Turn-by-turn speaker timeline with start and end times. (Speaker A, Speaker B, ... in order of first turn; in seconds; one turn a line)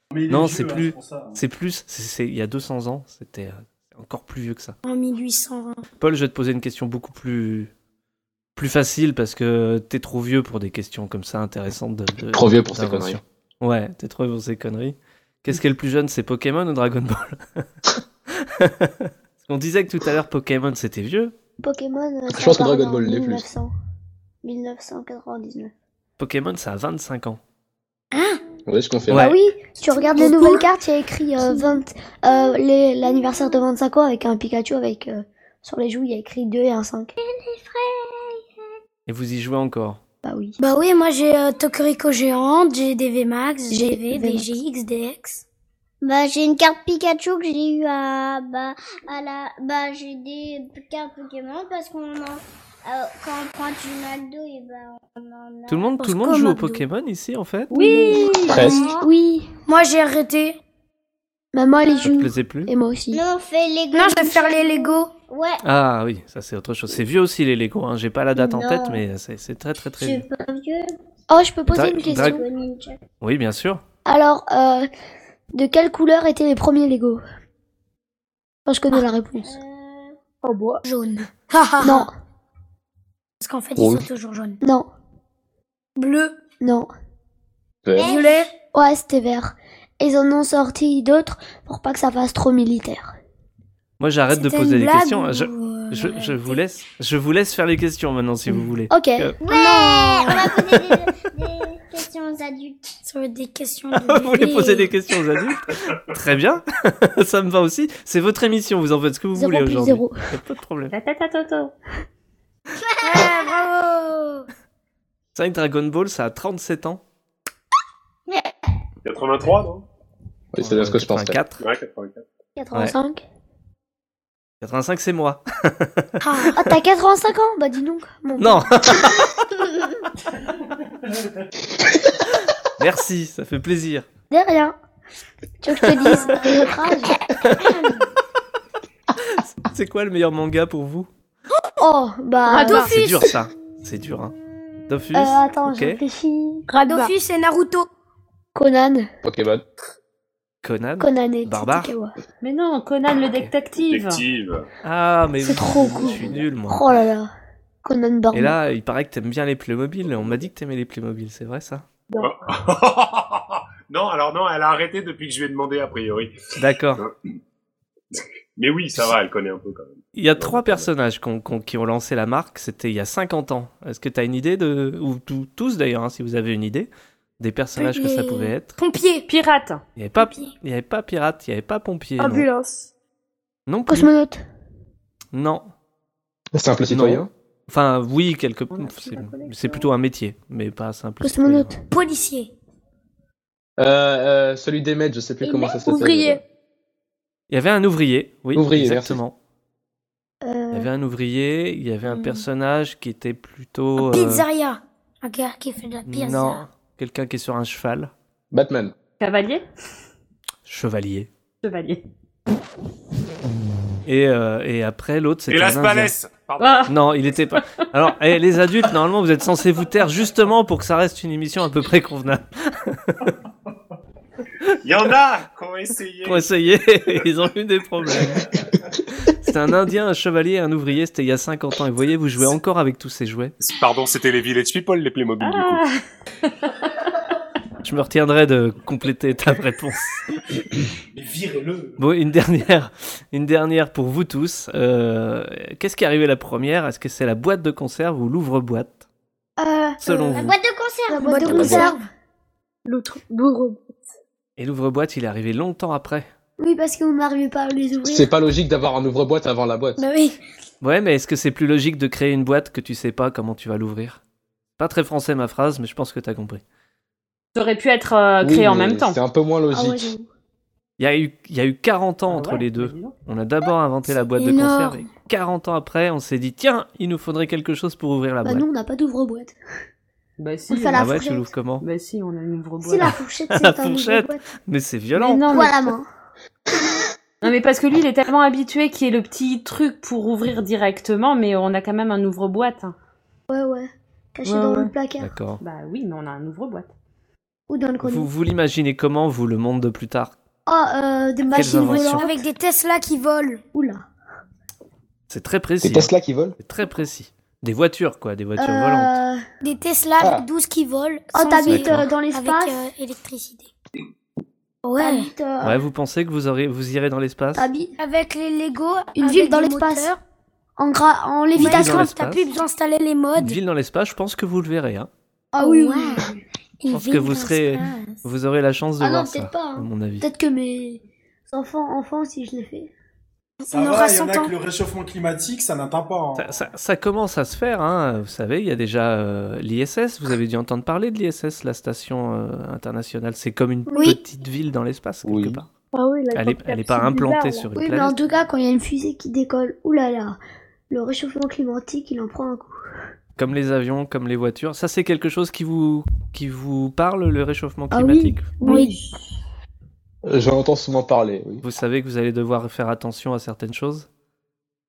Speaker A: 0.1-1.4
Speaker B: 0.3-4.8
Speaker C: 4.8-5.8
Speaker B: 6.0-7.7
Speaker B: 8.6-17.7
Speaker D: 12.3-13.2
Speaker B: 18.4-21.3
Speaker E: 21.6-23.7
Speaker D: 22.3-23.4
Speaker E: 24.4-25.7
Speaker B: 26.2-27.4
Speaker C: 28.1-28.4
Speaker D: 28.7-29.3
Speaker B: 29.1-29.4
Speaker E: 29.1-37.1
Speaker C: 29.9-30.7
Speaker F: 37.2-38.5
Speaker B: 39.1-40.0
Speaker E: 40.2-40.6
Speaker C: 40.6-45.5
Speaker E: 43.7-44.5
Speaker F: 46.0-55.9
Speaker B: 55.7-57.7
Speaker C: 56.0-56.8
Speaker G: 57.7-58.4
Speaker C: 58.0-58.9
Speaker F: 58.1-59.0
Speaker D: 58.5-58.9
Speaker E: 58.5-59.5
Speaker C: 59.7-60.6
Speaker E: 61.5-63.2
Speaker B: 62.0-62.7
Speaker F: 63.1-65.6
Speaker C: 63.9-65.1
Speaker B: 65.6-70.2
Speaker F: 68.4-69.0
Speaker F: 70.0-70.9
Speaker E: 71.3-72.5
Speaker B: 71.7-72.4
Speaker F: 72.0-73.0
Speaker B: 73.2-73.8
Speaker E: 74.0-74.9
Speaker E: 75.5-77.2
Speaker E: 78.7-79.6
Speaker F: 79.4-80.2
Speaker H: 80.4-80.8
Speaker C: 80.8-82.1
Speaker E: 81.8-82.1
Speaker C: 83.4-84.6
Speaker D: 83.8-84.1
Speaker E: 84.6-84.9
Speaker C: 86.0-86.4
Speaker E: 86.6-86.9
Speaker D: 87.8-88.2
Speaker F: 88.0-88.5
Speaker C: 88.0-88.5
Speaker E: 88.7-93.2
Speaker B: 94.0-99.3
Speaker C: 94.3-96.6
Speaker E: 98.9-100.4
Speaker F: 99.4-102.9
Speaker C: 103.0-104.9
Speaker B: 104.0-111.0
Speaker E: 109.3-110.2
Speaker G: 110.9-111.7
Speaker C: 113.0-114.5
Speaker B: 115.3-117.0
Speaker I: 119.0-119.8
Speaker D: 120.5-121.4
Speaker B: 120.6-121.6
Speaker I: 121.6-122.2
Speaker E: 122.6-123.2
Speaker B: 124.6-126.5
Speaker C: 126.2-126.6
Speaker E: 126.5-128.7
Speaker B: 128.4-129.3
Speaker B: 132.8-134.1
Speaker E: 134.3-134.8
Speaker E: 135.6-137.2
Speaker B: 139.3-141.1
Speaker E: 141.8-142.9
Speaker C: 142.5-143.2
Speaker H: 142.5-142.9
Speaker B: 142.8-144.3
Speaker B: 144.9-146.0
Speaker E: 145.1-146.7
Speaker H: 146.7-147.1
Speaker C: 146.7-147.9
Speaker E: 148.6-149.1
Speaker D: 149.2-149.7
Speaker B: 150.6-151.9
Speaker E: 151.0-152.2
Speaker G: 152.4-154.2
Speaker I: 153.9-154.7
Speaker B: 154.8-156.8
Speaker E: 155.4-157.3
Speaker E: 157.8-158.6
Speaker B: 158.3-161.9
Speaker I: 160.1-160.4
Speaker I: 162.2-166.3
Speaker B: 166.6-167.1
Speaker I: 168.1-170.9
Speaker B: 170.2-178.7
Speaker C: 177.8-179.3
Speaker G: 179.3-179.8
Speaker B: 180.0-182.5
Speaker C: 180.2-180.5
Speaker H: 182.2-182.9
Speaker B: 183.7-184.1
Speaker E: 183.9-184.4
Speaker B: 185.3-185.7
Speaker D: 186.6-187.3
Speaker B: 186.9-191.8
Speaker G: 188.7-189.9
Speaker E: 191.2-191.8
Speaker C: 191.9-192.5
Speaker D: 193.8-196.4
Speaker H: 195.4-196.4
Speaker B: 197.5-199.3
Speaker D: 198.5-199.2
Speaker E: 200.4-200.9
Speaker B: 200.7-204.4
Speaker C: 202.1-202.4
Speaker C: 204.0-206.6
Speaker B: 206.1-208.1
Speaker D: 208.5-208.9
Speaker G: 209.2-209.6
Speaker B: 210.7-211.3
Speaker G: 211.6-212.0
Speaker B: 214.1-216.1
Speaker I: 215.5-216.8
Speaker G: 216.6-216.9
Speaker B: 216.9-223.3
Speaker I: 224.8-226.5
Speaker B: 226.2-228.5
Speaker B: 229.3-233.6
Speaker I: 233.6-235.8
Speaker G: 235.4-236.0
Speaker B: 237.8-240.2
Speaker A: 241.1-242.0
Speaker B: 242.0-249.0
Speaker E: 249.6-250.5
Speaker B: 250.0-250.6
Speaker F: 250.3-251.9
Speaker E: 251.1-252.0
Speaker C: 251.2-252.1
Speaker D: 251.5-251.9
Speaker H: 252.9-254.0
Speaker B: 254.6-256.3
Speaker E: 256.6-258.3
Speaker D: 258.1-260.0
Speaker C: 260.0-260.4
Speaker B: 260.8-264.2
Speaker B: 264.8-266.6
Speaker G: 267.5-269.2
Speaker D: 268.4-270.1
Speaker E: 269.7-270.3
Speaker B: 271.0-278.7
Speaker G: 272.3-273.1
Speaker C: 274.4-275.1
Speaker E: 278.4-279.6
Speaker G: 280.4-281.1
Speaker E: 280.7-281.5
Speaker B: 280.9-281.9
Speaker G: 281.8-283.1
Speaker E: 282.8-284.4
Speaker B: 283.0-285.6
Speaker G: 285.1-285.9
Speaker E: 285.5-286.1
Speaker G: 287.4-292.9
Speaker E: 293.5-295.3
Speaker G: 294.4-294.9
Speaker B: 295.2-295.6
Speaker G: 295.6-296.9
Speaker E: 297.7-298.3
Speaker B: 298.0-300.3
Speaker E: 300.7-302.4
Speaker B: 301.5-302.3
Speaker C: 301.8-303.6
Speaker E: 303.7-304.1
Speaker B: 305.3-309.2
Speaker D: 305.8-306.6
Speaker E: 308.6-309.4
Speaker C: 309.6-313.7
Speaker D: 310.2-310.5
Speaker E: 311.3-312.8
Speaker B: 311.7-312.1
Speaker C: 314.8-315.3
Speaker E: 315.0-315.8
Speaker B: 315.6-317.7
Speaker E: 317.6-317.9
Speaker C: 318.0-320.2
Speaker E: 319.2-320.1
Speaker E: 320.8-322.1
Speaker B: 321.6-322.5
Speaker C: 321.6-323.6
Speaker B: 323.4-325.1
Speaker E: 325.5-326.3
Speaker C: 325.6-326.3
Speaker C: 326.8-328.1
Speaker B: 326.9-330.3
Speaker E: 329.0-332.9
Speaker C: 333.6-334.5
Speaker A: 333.7-336.5
Speaker B: 336.4-345.7
Speaker E: 343.9-344.2
Speaker D: 345.2-345.6
Speaker H: 345.9-347.7
Speaker B: 346.3-348.2
Speaker E: 347.8-350.4
Speaker E: 350.9-352.8
Speaker B: 353.4-358.5
Speaker E: 357.9-358.9
Speaker D: 360.3-361.6
Speaker B: 361.6-364.1